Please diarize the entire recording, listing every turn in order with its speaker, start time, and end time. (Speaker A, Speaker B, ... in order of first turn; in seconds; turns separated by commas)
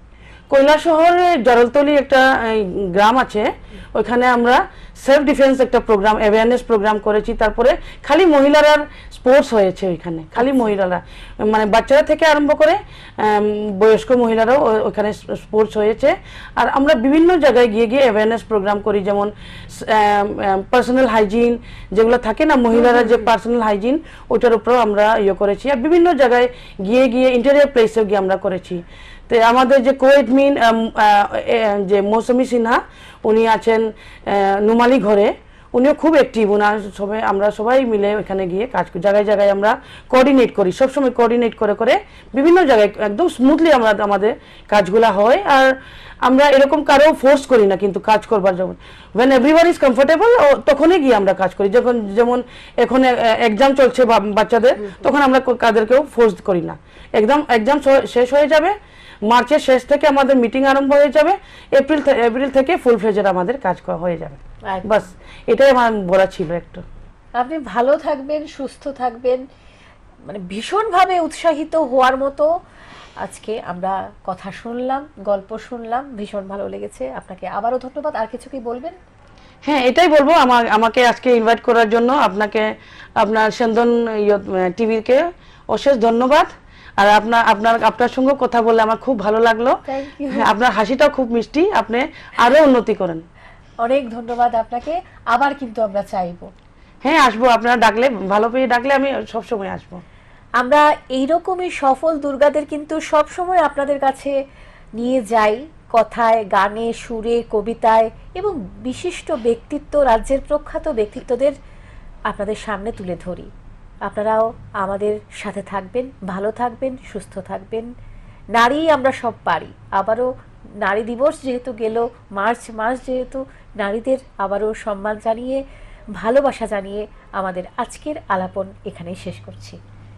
Speaker A: 0.5-66.8, Speaker B: 22.9-23.2, Speaker B: 64.7-65.1, Speaker B: 67.4-69.5, Speaker B: 70.3-72.5, Speaker B: 73.2-79.0, Speaker A: 79.6-89.8, Speaker B: 89.9-90.5, Speaker A: 90.3-93.2, Speaker B: 93.8-96.5, Speaker A: 97.0-100.0, Speaker B: 100.6-104.4, Speaker B: 105.0-111.6, Speaker B: 112.3-113.5, Speaker B: 114.1-117.9, Speaker B: 118.5-125.6, Speaker B: 126.2-129.8